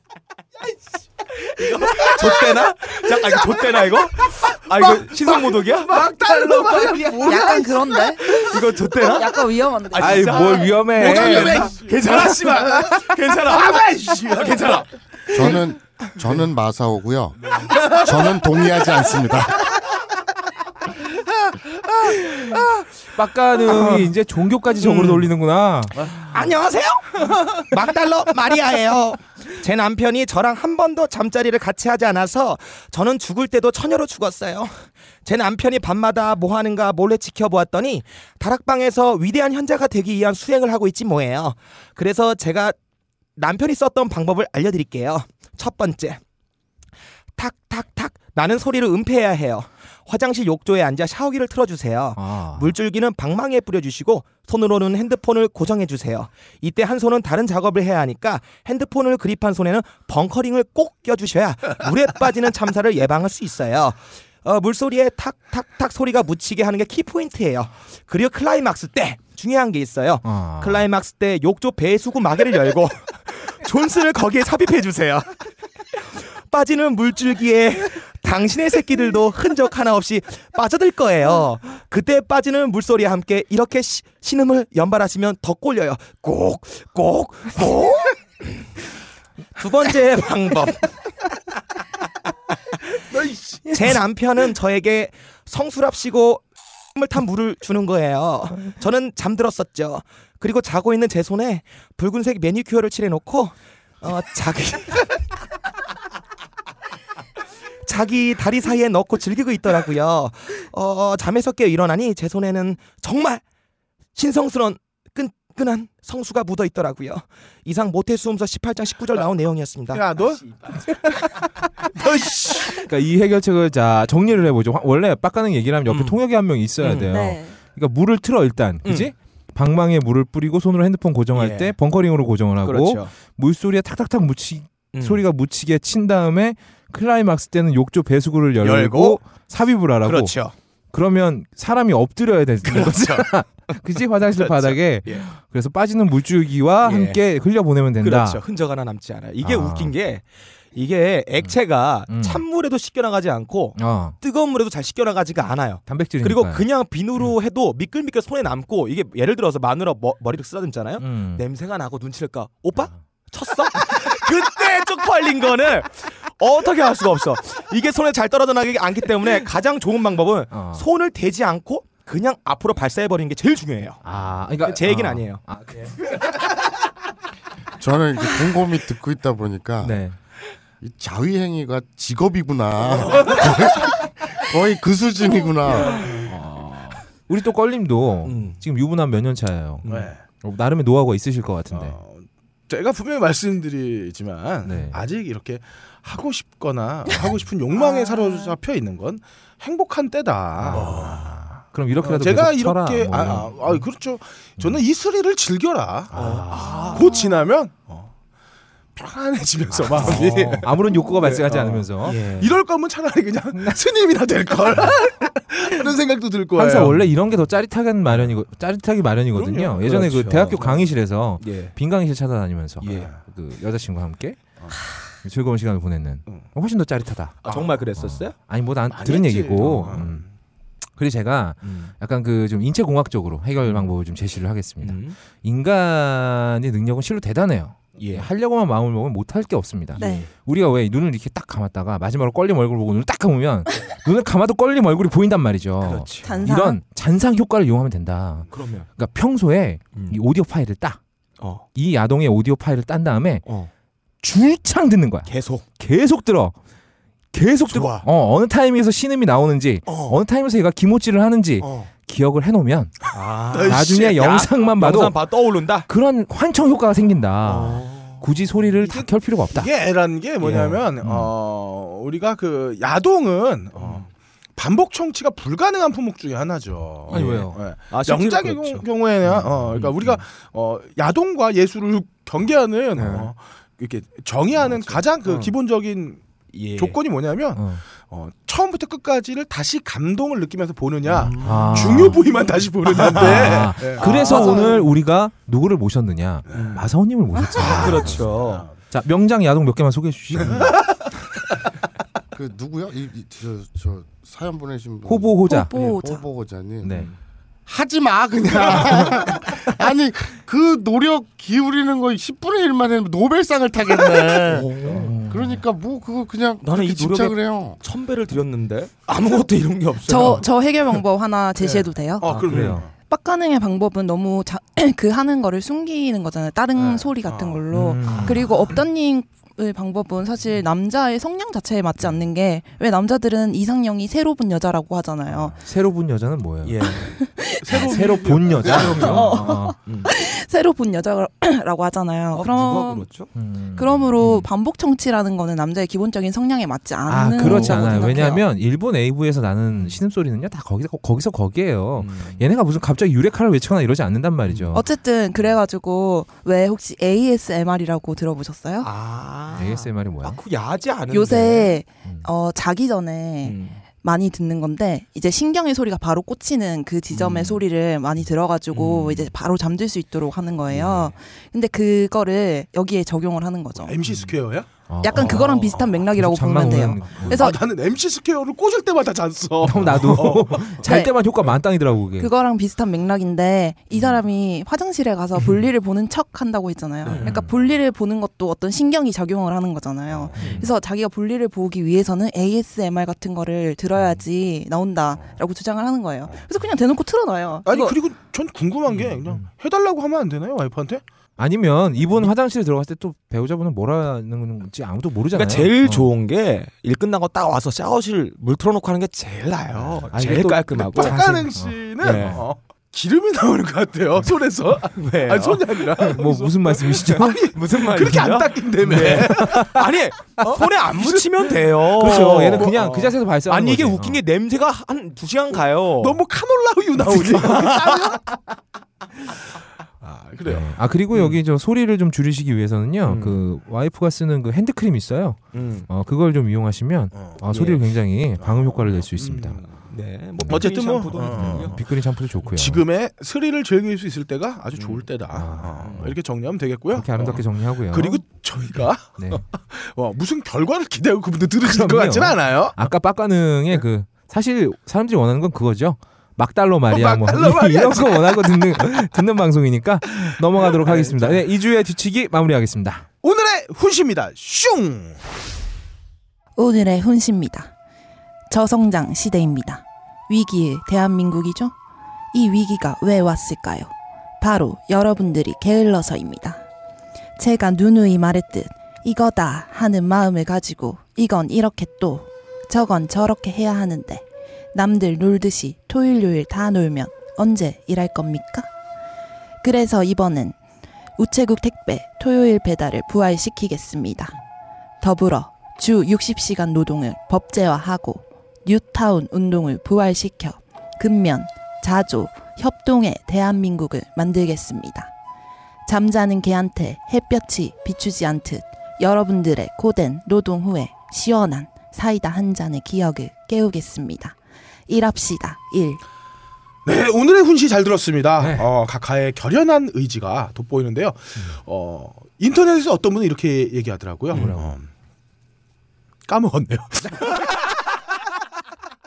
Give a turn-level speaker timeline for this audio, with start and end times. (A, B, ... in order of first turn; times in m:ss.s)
0:01.5-0:07.4 A
0:01.8-0:02.6 B
0:04.4-0:08.6 B
0:07.2-0:08.3 C
0:08.3-0:15.6 A
0:09.0-0:10.4 C
0:10.0-0:11.7 D
0:10.9-0:14.9 B
0:15.3-0:19.8 E
0:17.6-0:18.8 B
0:22.1-0:22.6 A
0:23.1-0:26.2 D
0:23.7-0:24.1 A
0:24.8-0:25.3 A
0:26.0-0:42.8 A
0:43.4-0:46.2 A
0:47.4-1:15.4 A
0:52.2-0:52.7 D
1:10.2-1:10.8 D
1:15.9-1:28.6 A
1:29.6-1:30.9 A
1:33.1-1:33.8 B
1:33.7-1:36.4 A
1:36.9-1:45.2 A
1:47.8-1:53.4 A
1:54.1-2:00.1 A
1:59.9-2:00.4 B
2:01.9-2:02.8 B
2:02.7-2:20.4 D
2:05.9-2:06.2 A
2:06.8-2:07.1 A
2:07.1-2:07.6 C
2:08.8-2:09.1 A
2:11.3-2:11.8 A
2:12.6-2:13.1 A
2:14.9-2:15.2 A
2:18.6-2:19.2 A
2:20.0-2:20.5 A
2:20.9-2:28.4 D
2:22.6-2:23.3 A
2:24.4-2:25.3 A
2:26.8-2:27.2 A
2:28.0-2:30.2 A
2:29.4-2:29.9 D
2:30.7-2:54.0 A
2:32.1-2:32.4 D
2:33.8-2:34.2 D
2:35.9-2:36.6 D
2:41.0-2:41.4 D
2:50.5-2:50.8 D
2:54.0-2:55.9 D
2:54.6-2:55.4 A
2:57.8-3:00.0 E
2:59.8-3:00.2 D
3:00.8-3:06.1 E
3:06.2-3:12.0 D
3:08.2-3:08.6 A
3:09.9-3:10.2 B
3:11.7-3:28.1 B
3:14.6-3:15.0 D
3:17.7-3:18.6 C
3:20.6-3:23.9 D
3:20.7-3:21.0 A
3:26.1-3:26.9 D
3:26.1-3:27.1 A
3:26.6-3:27.4 C
3:28.9-3:37.1 B
3:29.9-3:30.7 A
3:30.0-3:32.3 D
3:32.0-3:32.6 A
3:36.6-3:44.4 D
3:39.3-3:39.9 B
3:39.8-3:40.7 A
3:40.6-3:40.9 B
3:41.4-3:41.8 A
3:42.8-3:43.1 A
3:42.8-3:43.2 B
3:45.2-3:47.4 D
3:47.4-3:48.4 A
3:47.4-3:47.7 B
3:47.9-3:50.2 D
3:48.9-3:50.3 B
3:51.0-4:11.0 D
3:51.6-3:51.9 A
3:54.8-3:55.2 A
3:58.0-3:58.3 A
3:59.9-4:00.3 A
4:00.0-4:00.3 C
4:05.8-4:06.4 A
4:06.2-4:06.8 C
4:08.5-4:08.9 A
4:11.4-4:11.6 A
4:11.7-4:13.4 D
4:14.2-4:16.6 D
4:15.3-4:15.6 A
4:17.3-4:22.9 D
4:17.7-4:18.1 A
4:19.9-4:20.2 A
4:21.6-4:21.9 A
4:23.1-4:25.9 A
4:23.5-4:24.2 B
4:23.7-4:25.2 D
4:25.9-4:29.7 D
4:27.4-4:28.2 A
4:28.8-4:46.2 B
4:30.4-4:30.8 A
4:30.5-4:31.3 D
4:33.8-4:34.1 A
4:37.1-4:37.6 D
4:37.1-4:40.2 A
4:42.9-4:43.3 A
4:44.6-4:45.5 A
4:46.5-4:47.0 A
4:46.8-4:54.9 B
4:47.6-4:47.8 D
4:51.1-4:52.2 A
4:51.4-4:52.3 D
4:53.0-4:54.8 A
4:53.0-4:58.3 D
4:56.5-4:56.8 B
4:56.5-4:56.9 A
4:57.6-4:58.7 A
4:57.6-4:58.8 B
4:58.9-5:00.8 D
5:02.3-5:06.9 E
5:05.1-5:05.8 D
5:05.5-5:06.2 C
5:06.8-5:07.1 D
5:07.6-5:17.8 E
5:14.4-5:15.1 A
5:14.9-5:15.6 D
5:16.6-5:20.4 A
5:20.1-5:35.6 C
5:21.6-5:22.9 B
5:22.3-5:22.8 D
5:26.8-5:28.4 B
5:27.7-5:28.5 D
5:35.6-5:36.8 D
5:36.6-5:37.1 A
5:37.0-5:37.8 C
5:37.6-5:39.3 B
5:37.7-5:39.8 D
5:38.6-5:40.1 A
5:38.9-5:43.1 C
5:42.3-5:43.3 A
5:43.3-5:44.5 D
5:43.8-5:48.4 C
5:47.1-5:54.9 D
5:47.4-5:48.0 A
5:52.0-5:52.4 A
5:54.5-5:54.8 A
5:54.7-5:58.9 C
5:58.8-6:01.8 A
5:59.5-6:00.4 D
6:01.1-6:13.9 C
6:03.4-6:03.8 A
6:07.1-6:07.6 A
6:08.7-6:09.3 A
6:13.8-6:14.7 B
6:14.9-6:17.5 D
6:15.0-6:17.6 C
6:15.2-6:15.8 B
6:17.3-6:20.8 B
6:19.6-6:22.3 D
6:20.8-6:21.1 C
6:22.2-6:38.0 C
6:27.0-6:27.4 A
6:27.1-6:27.6 D
6:30.4-6:30.7 D
6:30.4-6:30.7 A
6:37.6-6:41.0 B
6:39.1-6:39.4 D
6:41.4-6:46.1 D
6:45.3-6:51.2 A
6:50.1-6:52.4 D
6:50.9-6:59.8 B
6:52.0-6:52.4 A
6:54.9-6:56.2 A
6:56.2-6:57.5 D
6:57.3-7:06.2 A
6:58.9-6:59.8 D
7:00.4-7:03.0 B
7:01.9-7:04.2 D
7:06.0-7:08.3 B
7:07.1-7:08.2 A
7:10.0-7:10.8 B
7:10.4-7:19.6 D
7:13.0-7:13.4 A
7:15.5-7:15.9 A
7:17.1-7:17.4 B
7:17.5-7:17.8 A
7:18.4-7:19.6 B
7:19.7-7:21.8 A
7:20.4-7:20.7 D
7:20.5-7:21.8 B
7:21.2-7:22.8 D
7:22.5-7:32.9 B
7:24.8-7:25.0 A
7:25.3-7:26.1 D
7:25.8-7:26.1 A
7:26.9-7:28.2 D
7:29.2-7:29.4 D
7:31.6-7:43.1 D
7:36.9-7:39.1 B
7:40.6-7:41.4 B
7:43.2-7:45.2 B
7:46.6-7:47.7 C
7:48.5-7:51.7 C
7:52.3-7:56.6 C
7:57.4-8:08.7 C
8:09.6-8:10.6 C
8:11.2-8:14.4 C
8:15.0-8:25.1 C
8:25.9-8:34.4 C
8:34.9-8:36.0 C
8:36.8-8:44.9 B
8:38.4-8:38.7 D
8:44.3-8:44.8 D
8:46.3-8:47.4 B